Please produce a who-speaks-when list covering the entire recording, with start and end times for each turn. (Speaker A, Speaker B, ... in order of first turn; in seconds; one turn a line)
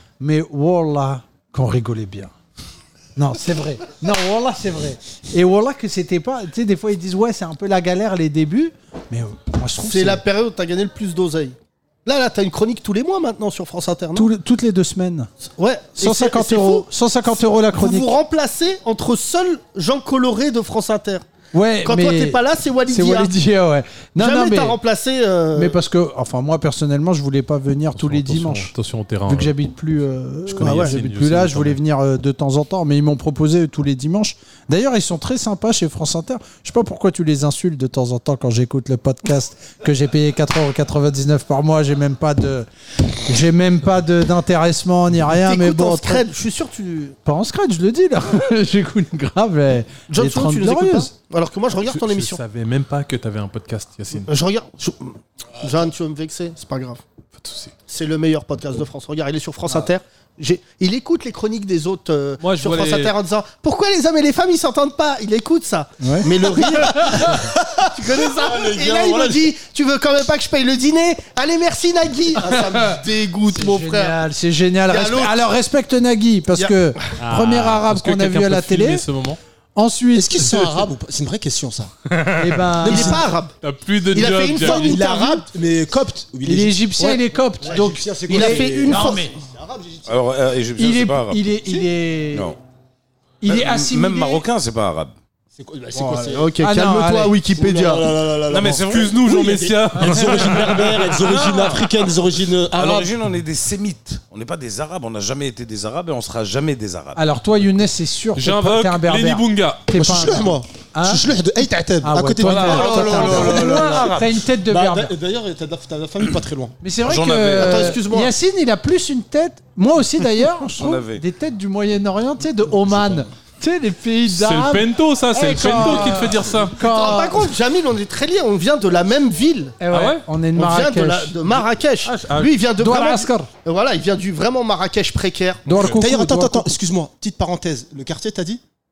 Speaker A: 0.2-2.3
Speaker A: 3.1-10.2
Speaker B: 9.8-14.3
Speaker A: 14.1-15.3
Speaker B: 15.6-21.2
Speaker A: 16.0-18.1
Speaker A: 21.5-24.8
Speaker B: 21.8-23.3
Speaker B: 24.2-25.8
Speaker A: 25.5-28.7
Speaker C: 27.9-29.5
Speaker A: 29.3-42.7
Speaker B: 30.5-31.0
Speaker C: 30.6-31.8
Speaker A: 43.2-46.2
Speaker B: 45.3-47.2
Speaker A: 47.2-51.1
Speaker B: 50.1-52.4
Speaker C: 51.8-54.3
Speaker B: 54.2-57.0
Speaker C: 57.4-57.7
Speaker B: 57.9-74.2
Speaker C: 62.4-63.1
Speaker A: 66.0-67.2
Speaker D: 67.4-69.5
Speaker A: 72.4-79.0
Speaker B: 74.9-75.5
Speaker B: 76.5-76.9
Speaker C: 77.2-79.4
Speaker A: 79.7-80.8
Speaker D: 80.1-81.9
Speaker C: 82.1-82.6
Speaker A: 82.4-83.2
Speaker D: 82.8-83.2
Speaker B: 82.8-83.5
Speaker C: 83.6-84.9
Speaker B: 84.1-85.5
Speaker D: 84.5-90.1
Speaker A: 86.4-89.3
Speaker B: 88.1-89.3
Speaker E: 90.0-91.5
Speaker A: 90.8-92.5
Speaker E: 92.3-92.6
Speaker A: 93.4-94.4
Speaker E: 93.4-95.1
Speaker D: 95.5-96.6
Speaker B: 95.9-98.1
Speaker A: 96.6-97.4
Speaker D: 97.4-103.1
Speaker E: 98.5-100.2
Speaker C: 99.0-100.1
Speaker E: 100.9-101.7
Speaker E: 102.7-107.2
Speaker A: 107.2-111.2
Speaker C: 108.3-109.8
Speaker D: 109.9-116.8
Speaker A: 112.0-115.1
Speaker E: 112.4-114.4
Speaker B: 112.7-113.7
Speaker A: 116.8-127.5
Speaker E: 117.0-118.0
Speaker B: 117.5-118.3
Speaker E: 120.7-121.2
Speaker D: 122.9-123.2
Speaker C: 124.3-126.7
Speaker B: 126.8-129.8
Speaker A: 129.8-131.6
Speaker C: 129.9-130.2
Speaker B: 130.5-135.8
Speaker A: 132.2-133.5
Speaker A: 135.7-136.8
Speaker C: 135.7-136.0
Speaker D: 135.9-138.6